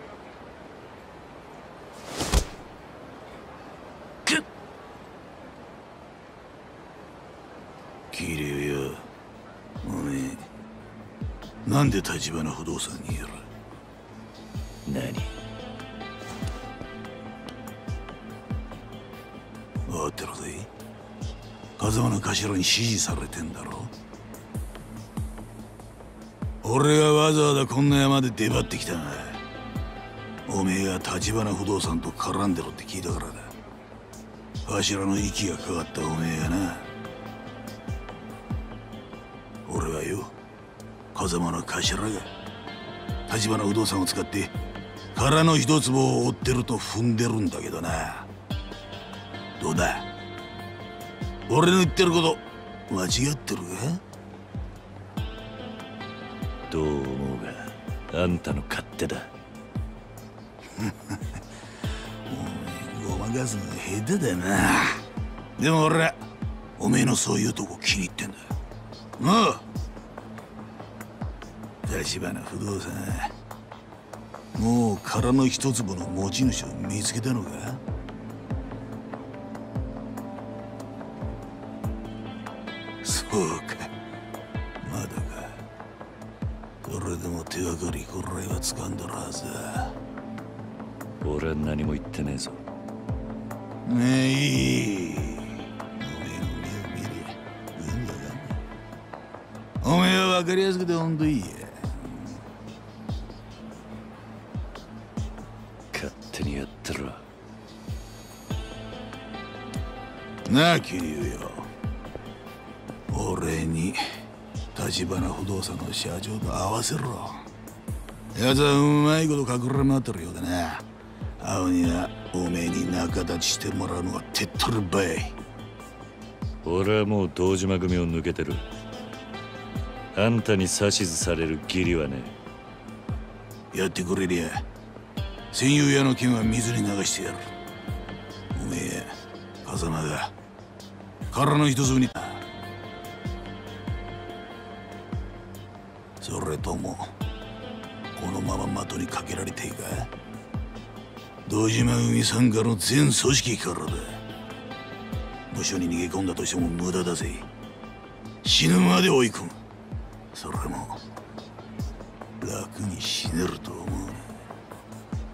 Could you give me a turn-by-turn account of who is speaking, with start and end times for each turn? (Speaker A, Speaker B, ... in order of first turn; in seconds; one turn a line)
Speaker A: 8.1-9.1
Speaker A: 9.8-10.5
Speaker A: 11.7-13.5
Speaker B: 14.9-15.3
Speaker A: 19.9-20.7
Speaker A: 21.8-23.9
Speaker A: 26.6-29.4
Speaker A: 30.5-33.5
Speaker A: 34.7-36.9
Speaker A: 39.7-40.3
Speaker A: 41.1-42.3
Speaker A: 43.3-44.5
Speaker A: 45.1-48.3
Speaker A: 49.6-50.1
Speaker A: 51.5-54.0
Speaker B: 56.7-59.3
Speaker A: 60.8-61.4
Speaker A: 62.3-65.0
Speaker A: 65.6-66.2
Speaker A: 66.8-68.5
Speaker A: 69.2-69.6
Speaker A: 71.8-73.3
Speaker A: 74.5-77.8
Speaker A: 83.0-83.9
Speaker A: 84.8-85.6
Speaker A: 86.8-90.0
Speaker B: 91.2-92.6
Speaker A: 93.9-95.4
Speaker A: 96.0-98.6
Speaker A: 99.8-102.1
Speaker B: 105.9-107.2
Speaker A: 110.5-111.7
Speaker A: 113.1-114.0
Speaker A: 114.7-117.5
Speaker A: 118.3-120.8
Speaker A: 121.4-125.3
Speaker B: 126.6-128.7
Speaker B: 130.1-132.3
Speaker A: 133.7-134.7
Speaker A: 135.5-137.4
Speaker A: 138.5-139.1
Speaker A: 139.6-140.3
Speaker A: 141.3-142.4
Speaker A: 146.2-147.1
Speaker A: 148.2-150.1
Speaker A: 151.5-154.2
Speaker A: 155.5-157.5
Speaker A: 158.4-159.6
Speaker A: 160.3-161.0
Speaker A: 162.4-164.2